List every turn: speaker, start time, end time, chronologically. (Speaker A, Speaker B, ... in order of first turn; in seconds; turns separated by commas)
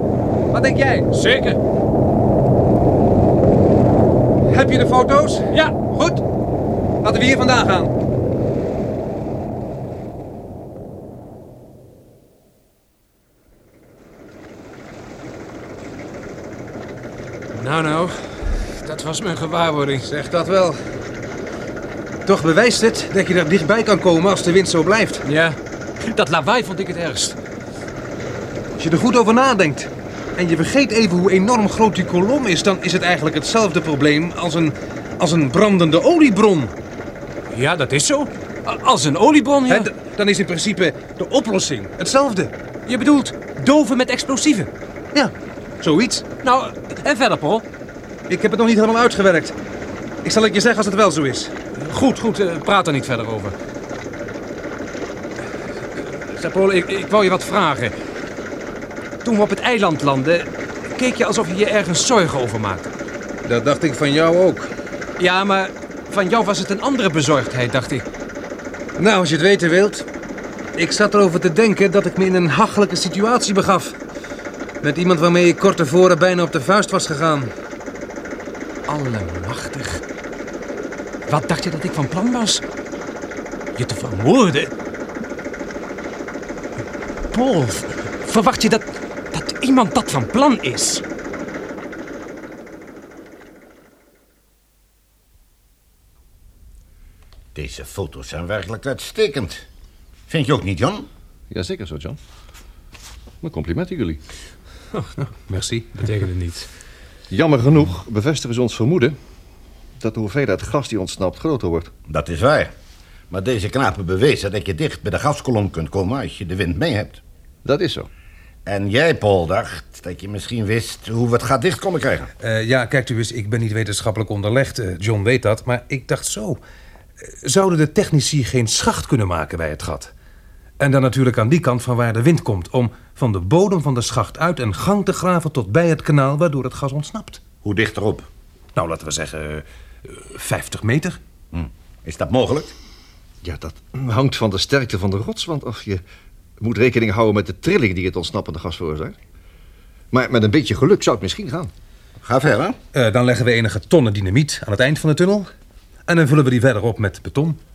Speaker A: 0.5-1.1, Speaker B: 1.1-1.6, Speaker A: 4.5-6.2, Speaker B: 5.5-5.8, Speaker A: 7.0-7.9, Speaker B: 17.5-20.1, Speaker A: 20.1-20.8, Speaker A: 22.2-25.2, Speaker B: 25.2-27.4, Speaker A: 28.8-36.7, Speaker B: 37.5-39.9, Speaker A: 39.7-42.5, Speaker B: 42.9-44.7, Speaker A: 45.1-46.3, Speaker B: 46.4-47.6, Speaker A: 48.3-49.5, Speaker A: 50.2-51.5, Speaker B: 51.8-53.5, Speaker B: 56.0-57.9, Speaker B: 59.2-62.9, Speaker A: 63.5-64.7, Speaker B: 65.2-68.0, Speaker A: 69.0-70.0, Speaker A: 70.8-74.0, Speaker A: 74.8-77.5, Speaker B: 78.9-80.0, Speaker B: 81.3-82.6, Speaker B: 83.8-84.7, Speaker B: 87.3-91.0, Speaker C: 97.5-99.7, Speaker C: 100.3-101.1, Speaker D: 101.5-102.2, Speaker D: 103.4-104.2, Speaker A: 105.5-106.1, Speaker B: 106.0-106.7, Speaker D: 107.3-109.2, Speaker D: 110.0-111.9, Speaker C: 112.1-112.7, Speaker C: 113.3-117.2, Speaker D: 117.6-118.1, Speaker C: 118.7-122.3, Speaker A: 122.4-126.6, Speaker A: 127.2-130.1, Speaker A: 130.8-137.4, Speaker C: 137.6-138.3, Speaker A: 138.8-141.2, Speaker C: 141.5-142.7, Speaker D: 143.4-146.0, Speaker D: 146.6-149.2, Speaker D: 150.1-151.7, Speaker C: 152.2-152.8, Speaker A: 152.9-155.5, Speaker A: 156.1-157.6